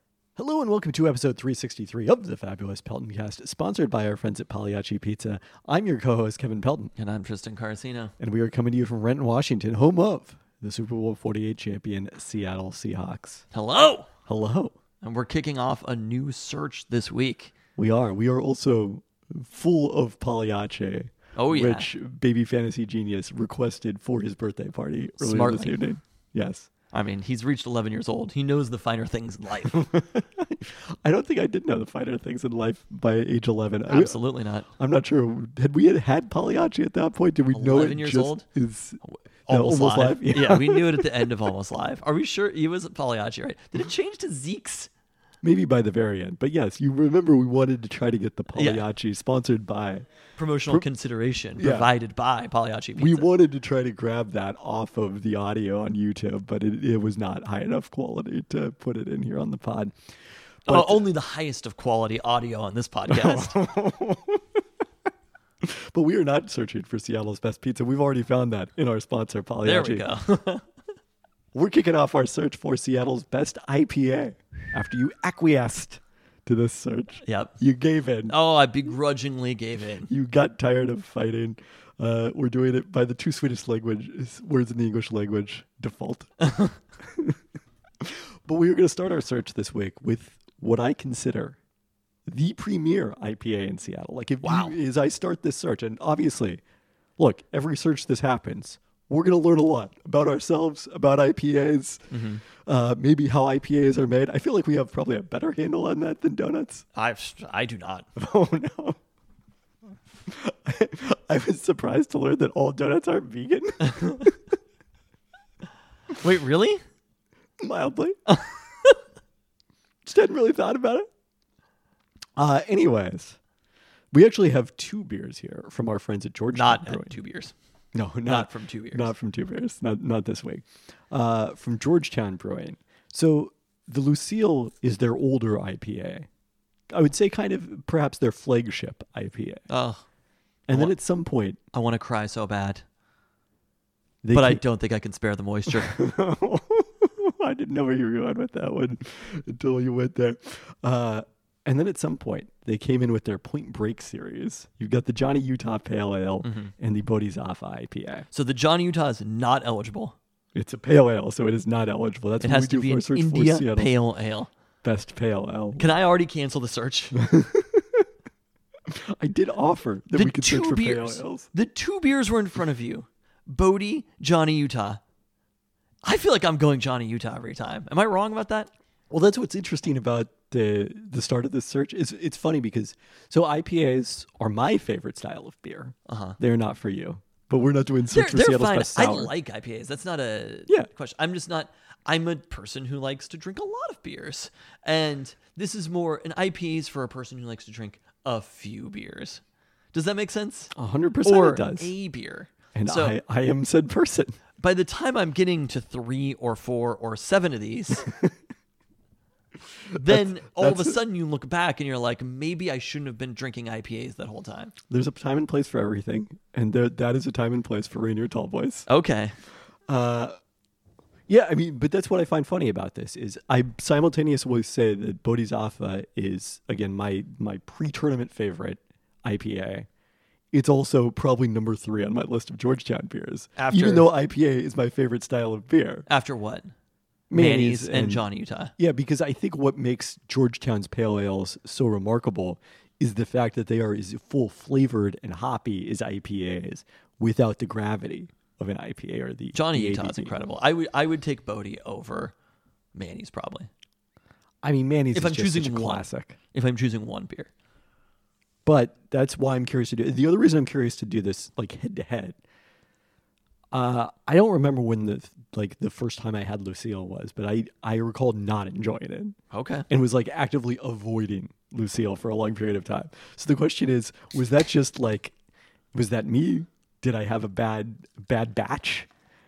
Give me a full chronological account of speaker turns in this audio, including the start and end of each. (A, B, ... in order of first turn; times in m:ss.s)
0:00.4-0:06.9 A
0:07.0-0:08.1 B
0:08.2-0:13.4 A
0:13.5-0:14.1 B
0:14.3-0:14.8 A
0:15.0-0:17.5 B
0:17.8-0:26.7 A
0:21.4-0:21.9 B
0:25.2-0:25.8 B
0:26.9-0:29.9 B
0:29.6-0:34.2 A
0:33.9-0:34.7 B
0:34.8-0:41.1 A
0:37.5-0:38.4 B
0:39.5-0:44.9 B
0:45.4-0:50.1 A
0:48.6-0:48.9 B
0:50.4-0:53.3 B
0:51.6-0:51.9 A
0:53.0-1:00.0 A
1:00.6-1:01.1 A
1:00.7-1:03.6 B
1:03.1-1:04.6 A
1:05.6-1:10.1 A
1:09.6-1:10.6 B
1:11.5-1:18.4 A
1:17.2-1:17.6 B
1:18.3-1:20.1 B
1:20.1-1:26.3 A
1:26.4-1:26.8 B
1:27.0-1:27.4 A
1:28.0-1:31.6 A
1:32.3-1:36.6 A
1:34.4-1:34.8 B
1:37.2-1:46.8 A
1:42.1-1:42.4 B
1:47.0-1:48.1 B
1:48.2-1:49.0 A
1:50.3-1:54.4 A
1:56.2-1:56.8 B
1:57.6-1:58.2 A
1:58.3-1:58.9 B
2:00.0-2:01.1 A
2:02.4-2:03.4 A
2:04.1-2:07.2 A
2:06.5-2:07.5 B
2:07.9-2:16.3 A
2:08.3-2:09.1 B
2:16.9-2:19.6 A
2:19.7-2:20.0 B
2:20.7-2:21.6 A
2:20.7-2:21.0 B
2:21.7-2:22.8 B
2:24.2-2:24.6 A
2:24.3-2:26.0 B
2:25.7-2:38.3 A
2:36.4-2:36.7 B
2:38.3-2:40.2 B
2:40.6-2:43.9 A
2:42.4-2:44.5 B
2:44.8-2:45.9 A
2:45.8-2:47.2 B
2:47.2-2:48.1 A
2:48.9-2:51.5 A
2:50.1-2:55.0 B
2:56.0-2:58.7 B
2:59.1-3:09.3 A
3:06.1-3:06.4 B
3:08.1-3:19.4 B
3:19.9-3:20.7 B
3:20.7-3:21.9 A
3:21.2-3:23.2 B
3:22.8-3:24.4 A
3:24.6-3:28.1 B
3:28.1-3:28.3 A
3:29.9-3:31.0 A
3:30.0-3:34.7 B
3:34.9-3:38.9 A
3:38.9-3:39.4 B
3:39.9-3:40.4 A
3:41.3-3:49.9 A
3:50.5-3:56.1 A
3:53.6-3:54.1 B
3:56.1-3:56.7 B
3:57.3-3:58.2 A
3:57.3-3:58.7 B
3:58.8-4:10.4 A
4:09.5-4:12.3 B
4:13.0-4:13.7 B
4:14.6-4:16.4 A
4:15.1-4:17.5 B
4:18.6-4:22.4 A
4:23.7-4:29.4 A
4:29.5-4:29.9 B
4:29.9-4:35.4 A
4:35.9-4:39.1 A